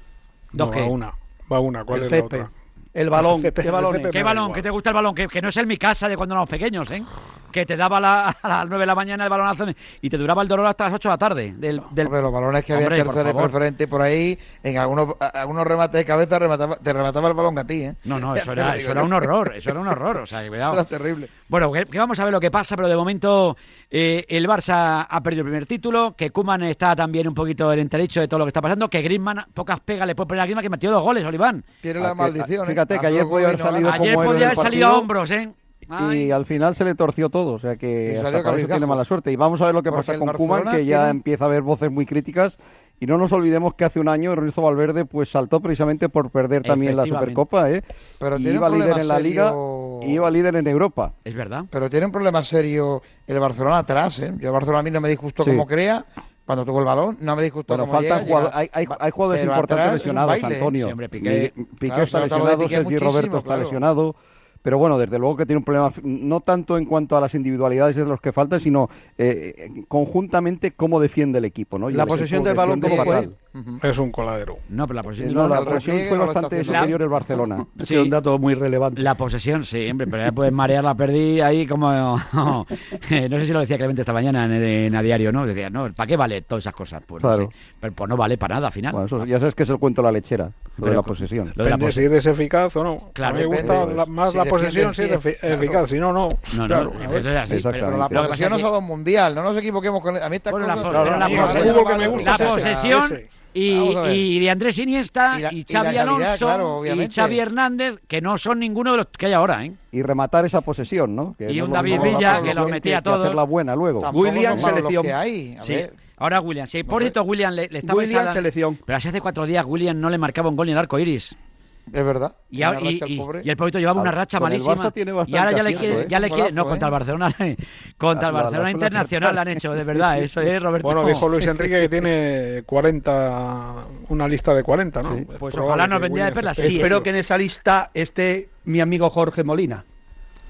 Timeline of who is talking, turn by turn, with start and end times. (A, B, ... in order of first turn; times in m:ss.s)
0:00.5-0:02.5 A
0:00.5-0:00.9 B
0:01.9-0:04.1 C
0:03.1-0:04.7 A
0:04.1-0:12.1 B
0:12.0-0:19.9 D
0:12.7-0:13.5 B
0:18.0-0:20.8 B
0:20.6-0:21.3 D
0:21.5-0:31.6 B
0:31.8-0:34.8 D
0:32.0-0:35.1 E
0:33.8-0:36.3 B
0:36.0-0:51.1 E
0:38.0-0:39.0 D
0:39.9-0:41.2 D
0:46.6-0:47.4 B
0:48.2-0:50.2 D
0:51.2-0:51.7 B
0:51.7-1:00.8 D
0:57.7-1:13.3 E
1:00.8-1:01.6 B
1:01.8-1:03.8 D
1:11.9-1:13.2 C
1:12.6-1:13.8 D
1:13.8-1:14.6 A
1:14.7-1:16.0 B
1:15.2-1:17.6 E
1:15.4-1:17.0 D
1:16.6-1:17.0 B
1:17.8-1:19.0 C
1:17.8-1:18.1 B
1:18.9-1:29.2 B
1:27.2-1:27.5 E
1:28.9-1:31.5 E
1:30.8-1:37.3 A
1:31.6-1:32.1 B
1:33.1-1:33.6 B
1:33.3-1:35.8 D
1:33.6-1:34.0 E
1:36.5-1:38.7 B
1:37.5-1:38.3 E
1:37.7-1:43.0 D
1:40.5-1:49.8 B
1:40.8-1:43.2 A
1:41.3-1:41.6 E
1:43.6-1:44.2 D
1:45.3-1:47.4 D
1:49.9-1:54.8 E
1:51.4-1:53.4 B
1:51.7-1:52.8 D
1:54.0-1:55.9 D
1:54.1-1:55.2 C
1:55.6-2:01.3 B
1:56.9-1:57.1 D
1:57.8-1:58.8 C
2:01.9-2:03.5 D
2:02.5-2:11.3 B
2:03.9-2:06.1 E
2:05.8-2:06.9 D
2:08.1-2:10.5 E
2:10.8-2:17.1 A
2:15.4-2:17.0 B
2:16.7-2:19.8 C